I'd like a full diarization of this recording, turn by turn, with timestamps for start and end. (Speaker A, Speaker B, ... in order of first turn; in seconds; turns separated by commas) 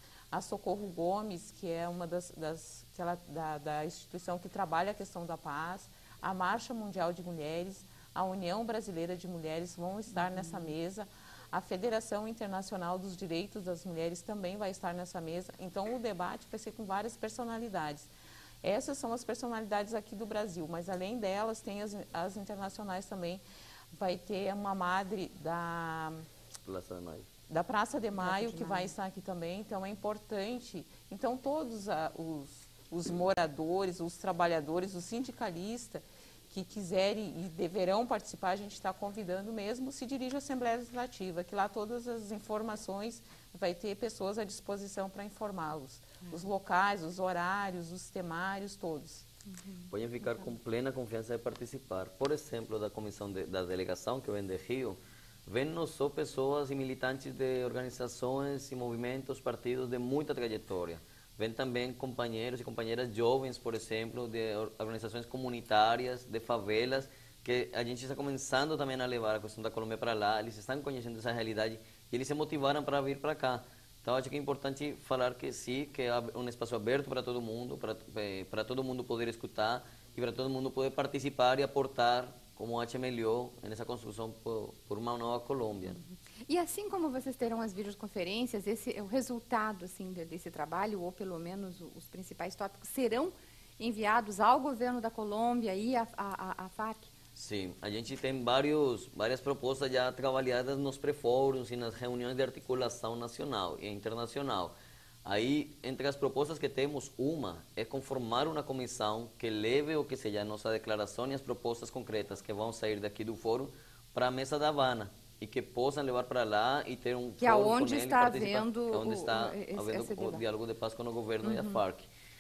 Speaker A: 0.3-18.1, Speaker B: 10.2-10.7, Speaker A: 18.6-23.4, Speaker A: 23.9-26.2, Speaker C: 26.6-27.3, Speaker A: 27.5-49.2, Speaker B: 28.2-28.9, Speaker C: 49.9-86.0, Speaker B: 86.0-97.1, Speaker C: 97.3-104.7, Speaker C: 105.2-122.1, Speaker B: 117.4-120.4, Speaker B: 121.4-121.8